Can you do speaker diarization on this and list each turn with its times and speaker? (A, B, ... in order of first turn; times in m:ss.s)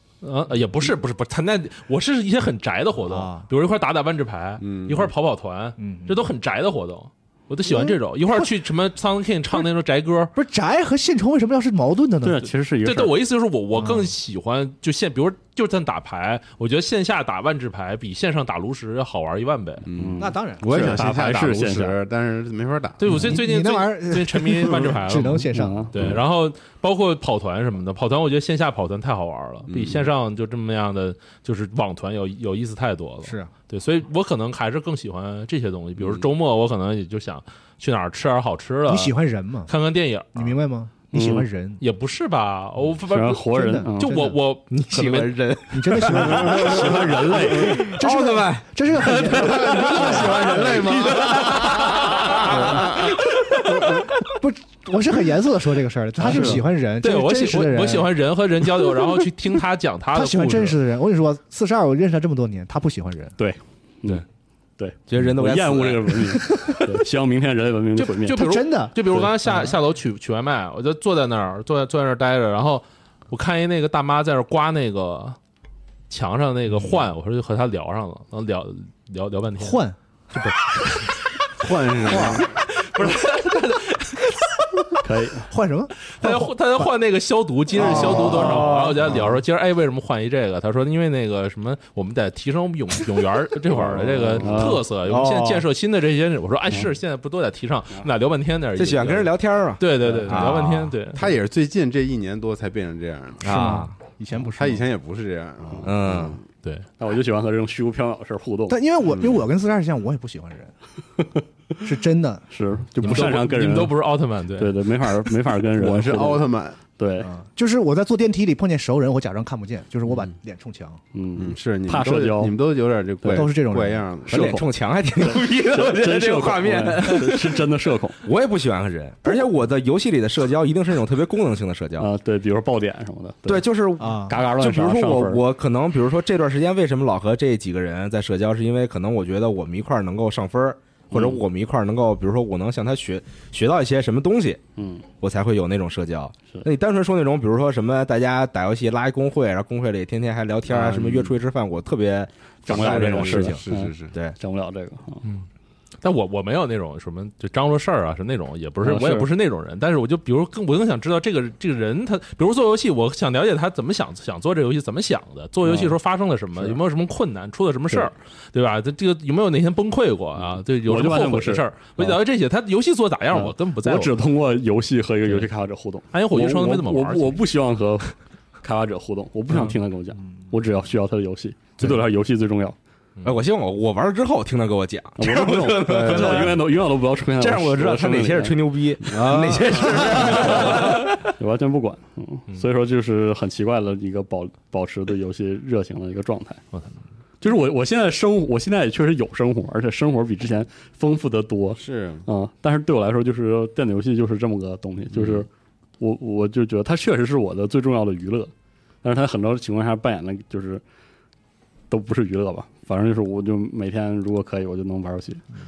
0:00.2-0:10.3 A
0:03.0-0:03.4 B
0:04.6-0:05.1 C
0:05.8-0:06.2 B
0:07.6-0:08.5 B
0:10.3-0:12.4 B
0:12.2-0:13.1 D
0:12.8-0:19.8 A
0:13.8-0:14.1 B
0:19.8-0:23.2 C
0:19.9-0:22.0 D
0:20.2-0:21.0 B
0:23.0-0:39.1 A
0:23.1-0:26.2 B
0:25.5-0:26.2 D
0:29.7-0:30.0 C
0:33.2-0:33.5 B
0:38.9-0:39.7 B
0:39.7-0:40.6 A
0:40.3-0:41.8 B
0:41.1-0:41.5 D
0:41.8-0:45.4 A
0:43.1-0:44.3 D
0:43.5-0:44.3 B
0:44.7-0:52.6 E
0:45.7-0:51.2 B
0:46.5-0:47.9 D
0:49.3-0:52.0 C
0:51.3-0:53.5 A
0:52.5-0:53.1 C
0:54.2-0:58.1 B
0:56.3-0:56.6 D
0:56.3-1:00.8 A
0:58.8-0:59.1 B
1:00.1-1:03.3 B
1:03.4-1:04.2 D
1:04.8-1:08.4 D
1:05.1-1:06.3 E
1:06.5-1:06.8 B
1:08.0-1:15.4 A
1:08.3-1:09.7 B
1:16.1-1:19.8 A
1:19.6-1:20.0 B
1:20.3-1:21.2 A
1:21.6-1:22.6 C
1:22.2-1:24.9 A
1:25.0-1:25.5 D
1:25.5-1:26.9 B
1:26.1-1:41.3 A
1:27.8-1:28.7 B
1:27.8-1:29.2 E
1:34.2-1:34.8 D
1:35.0-1:35.6 E
1:38.8-1:40.9 E
1:40.0-1:40.4 D
1:41.1-1:43.6 C
1:43.4-1:44.0 E
1:43.4-1:44.8 B
1:44.4-1:46.4 C
1:45.8-1:46.4 E
1:47.0-1:48.8 D
1:48.7-1:50.7 B
1:51.8-1:52.4 B
1:52.5-1:53.9 D
1:53.0-1:54.8 A
1:54.6-1:57.3 D
1:55.7-1:56.8 C
1:57.2-2:01.0 B
2:01.1-2:02.5 D
2:01.4-2:04.5 C
2:03.2-2:03.5 D
2:03.3-2:04.0 B
2:04.3-2:04.7 D
2:04.3-2:07.7 E
2:05.2-2:08.2 D
2:08.2-2:12.1 E
2:12.0-2:13.6 D
2:13.4-2:24.6 E
2:14.0-2:14.3 B
2:14.3-2:15.4 D
2:21.1-2:21.4 D
2:24.8-2:25.0 D
2:25.2-2:34.4 E
2:30.7-2:31.3 C
2:32.7-2:35.2 D
2:32.7-2:34.1 C
2:36.0-2:54.1 A
2:38.8-2:39.3 D
2:45.6-2:46.0 D
2:50.8-2:52.2 D
2:53.3-3:02.8 D
2:56.1-2:57.4 A
3:03.2-3:06.7 E
3:05.2-3:08.6 D
3:05.9-3:06.5 C
3:07.4-3:11.2 E
3:09.1-3:10.4 C
3:09.7-3:16.6 D
3:17.4-3:25.5 D
3:21.8-3:22.2 C
3:25.2-3:25.4 C
3:26.0-3:28.5 D
3:29.0-3:30.8 D
3:31.9-3:35.4 D